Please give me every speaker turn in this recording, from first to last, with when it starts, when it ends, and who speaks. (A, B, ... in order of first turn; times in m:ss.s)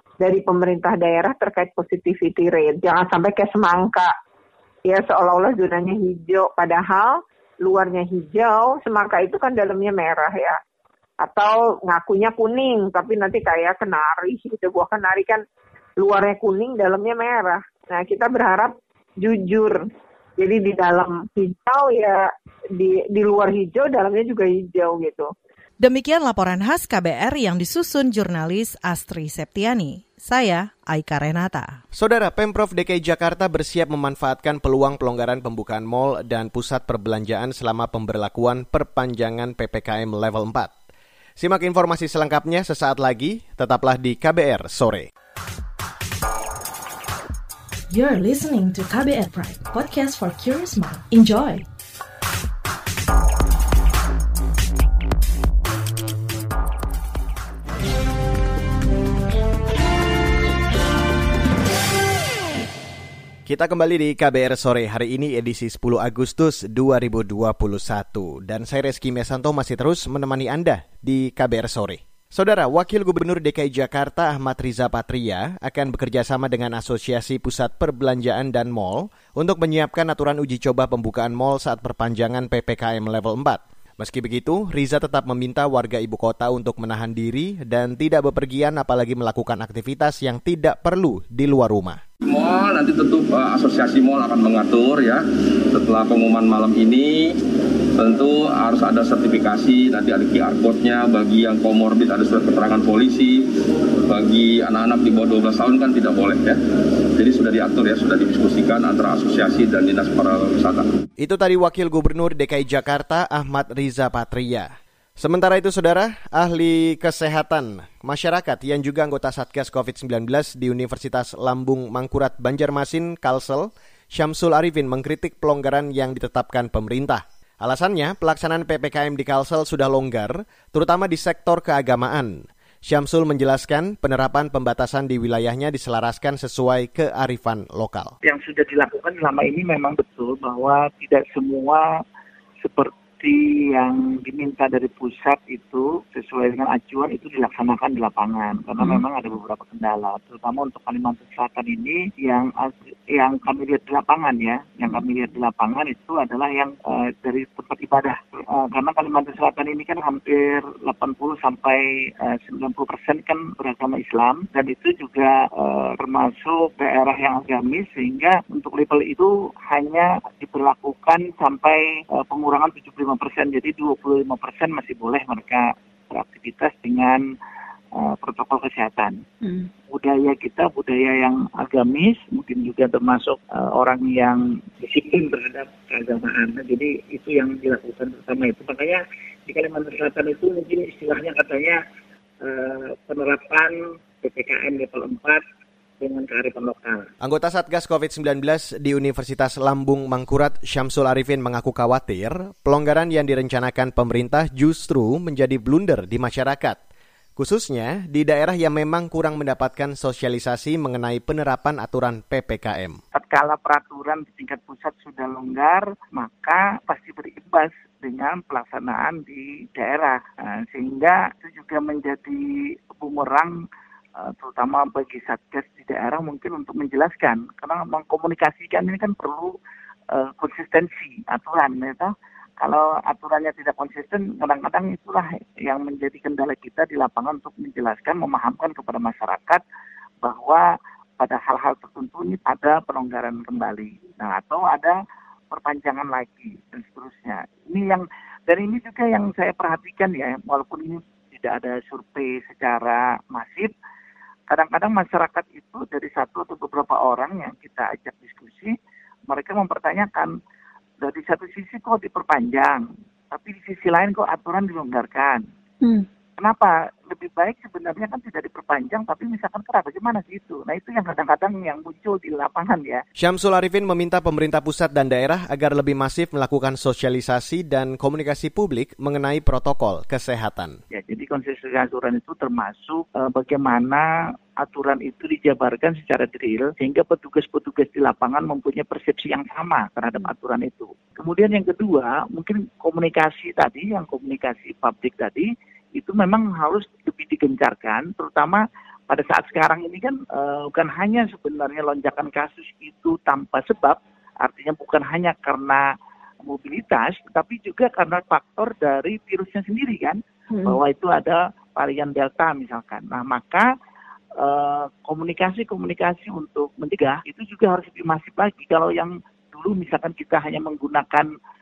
0:00.2-0:04.1 A
0:04.9-0:10.6 A
0:11.2-0:15.4 A
0:16.0-0:19.8 A
0:20.4-0:25.3 A
0:25.8-0:31.8 B
0:31.9-0:40.7 C
0:41.4-0:45.1 C
0:47.9-0:51.6 D
1:03.5-1:32.0 C
1:32.2-1:37.4 E
1:38.0-1:43.5 E
1:44.1-1:46.6 E
1:47.2-1:50.9 E
1:51.2-2:18.1 C
2:18.2-2:21.9 F
2:22.6-2:57.2 F
2:58.0-2:59.2 F
2:59.9-3:11.8 F
3:12.4-3:15.4 F
3:16.0-3:17.1 F
3:17.2-3:26.8 C
3:27.4-3:33.0 C
3:33.1-3:43.6 F
3:44.2-3:49.5 F
3:50.1-3:59.6 F
4:00.2-4:00.6 F
4:01.2-4:05.0 F
4:05.5-4:13.7 F
4:14.5-4:18.8 F
4:19.3-4:20.3 F
4:21.0-4:25.4 F
4:26.4-4:33.0 F
4:33.2-4:40.8 C
4:40.9-4:44.1 F
4:44.6-5:05.8 F
5:06.4-5:13.7 F
5:14.4-5:21.3 F